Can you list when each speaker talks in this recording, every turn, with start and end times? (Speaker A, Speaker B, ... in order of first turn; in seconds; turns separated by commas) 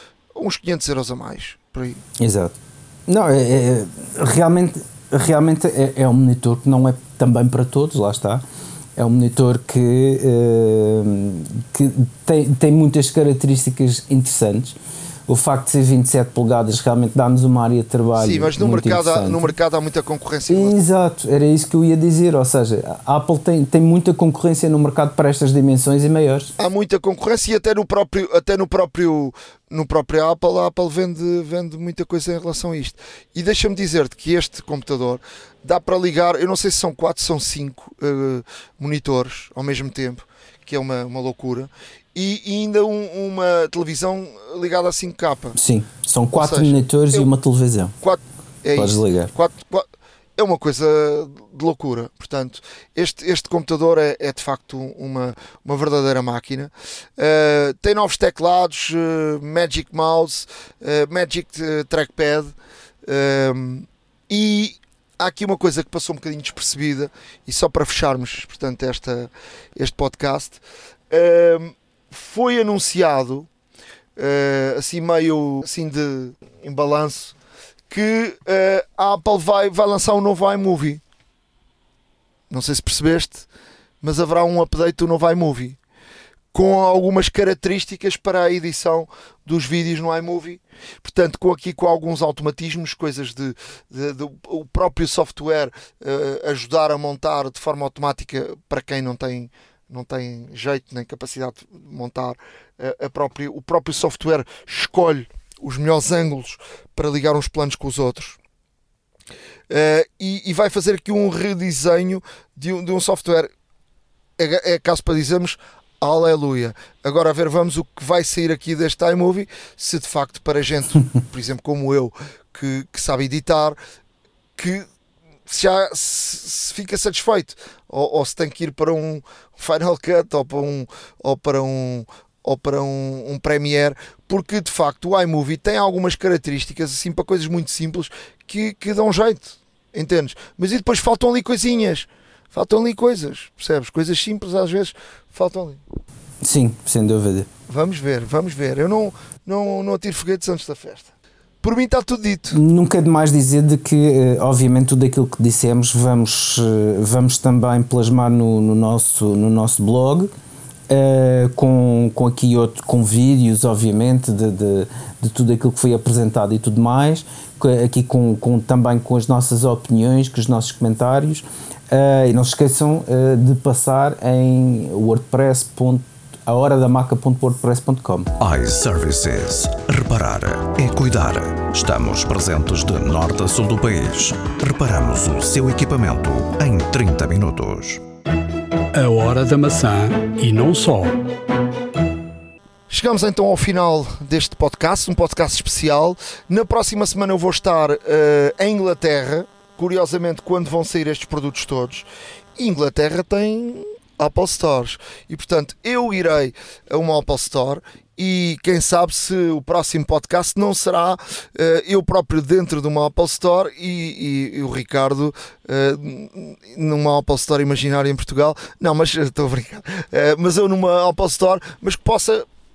Speaker A: 0.3-2.0, Speaker B: 2.2-8.4, Speaker B: 8.9-14.8, Speaker B: 15.3-19.5, Speaker A: 18.2-20.7, Speaker B: 20.5-26.5, Speaker A: 26.6-45.5, Speaker B: 45.5-48.0, Speaker A: 46.4-47.3, Speaker A: 48.0-62.5, Speaker B: 48.7-49.3, Speaker A: 63.0-73.5, Speaker A: 74.2-77.3, Speaker A: 77.9-81.0, Speaker A: 82.5-83.5, Speaker A: 84.0-85.8, Speaker A: 86.5-108.4, Speaker A: 109.7-113.5, Speaker A: 114.4-123.8, Speaker A: 124.6-124.9, Speaker A: 125.5-145.8, Speaker B: 146.4-147.5, Speaker A: 147.7-152.6, Speaker B: 152.5-160.3, Speaker B: 160.9-178.3, Speaker C: 178.4-188.0, Speaker D: 188.9-191.2, Speaker A: 192.9-202.1, Speaker A: 202.6-222.4